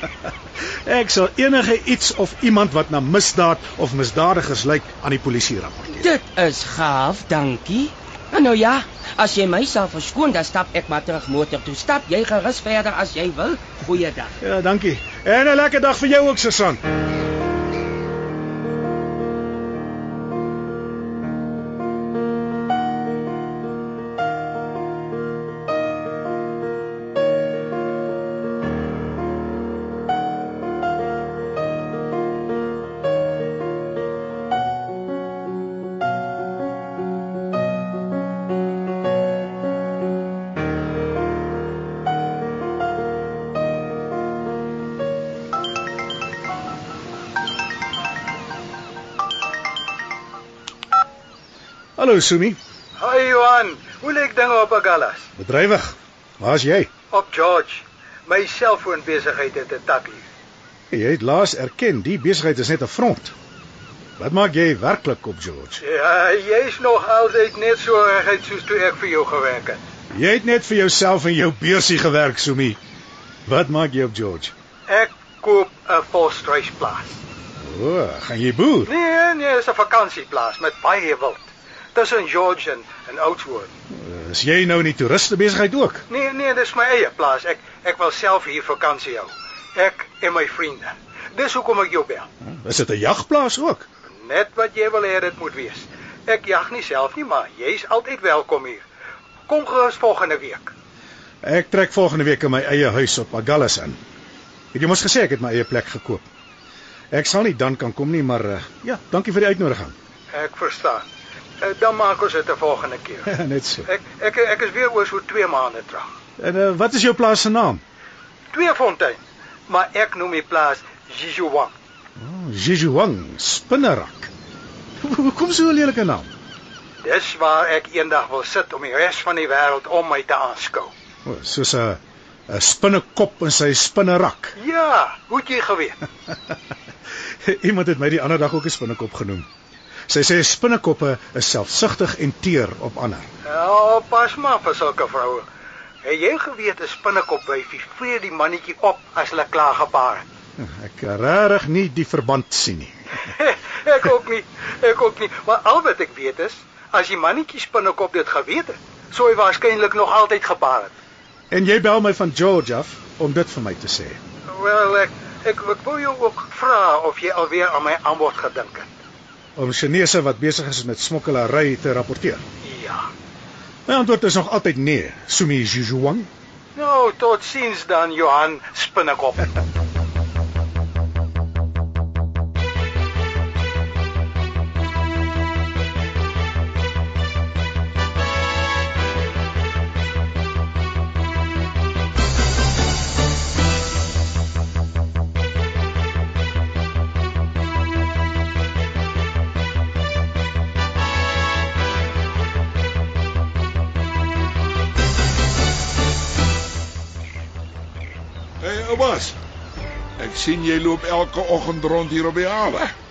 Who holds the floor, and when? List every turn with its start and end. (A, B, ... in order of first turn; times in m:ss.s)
0:00.8-0:06.1 A
0:06.0-0:14.4 B
0:14.4-0:16.8 A
0:52.0-0:52.6 A
0:53.1-0:55.1 C
0:55.4-0:56.9 A
0:57.2-0:57.7 C
0:58.4-1:00.2 C
1:00.9-1:03.3 A
1:04.2-1:05.8 A
1:06.0-1:09.8 C
1:10.1-1:12.8 A
1:13.4-1:14.5 A
1:15.0-1:17.1 C
1:17.6-1:18.9 A
1:19.1-1:21.4 C
1:22.0-1:23.6 C
1:23.9-1:26.0 A
1:26.3-1:29.3 C
1:29.8-1:32.2 C
1:32.4-1:33.9 A
1:34.4-1:35.6 C
1:36.5-1:38.8 C
1:39.6-1:40.6 C
1:41.4-1:44.0 A
1:44.7-1:46.2 A
1:47.1-1:49.9 A
1:50.4-1:51.0 C
1:51.8-1:53.1 C
1:53.3-1:53.9 A
1:54.1-1:56.0 C
1:56.4-1:57.8 A
1:58.6-1:59.2 C
1:59.7-2:01.7 C
2:02.2-2:04.3 A
2:05.0-2:06.3 A
2:07.0-2:10.9 C
2:11.2-2:14.5 A
2:14.7-2:15.9 C
2:17.4-2:19.5 A
2:20.1-2:23.2 A
2:23.6-2:25.4 C
2:26.1-2:30.2 C
2:30.6-2:33.0 A
2:33.9-2:38.7 C
2:39.2-2:40.9 C
2:41.5-2:44.2 A
2:44.7-2:48.8 C
2:49.6-2:52.4 A
2:53.9-2:56.3 A
2:56.8-2:59.3 C
3:28.6-3:29.4 D
3:30.2-3:32.9 D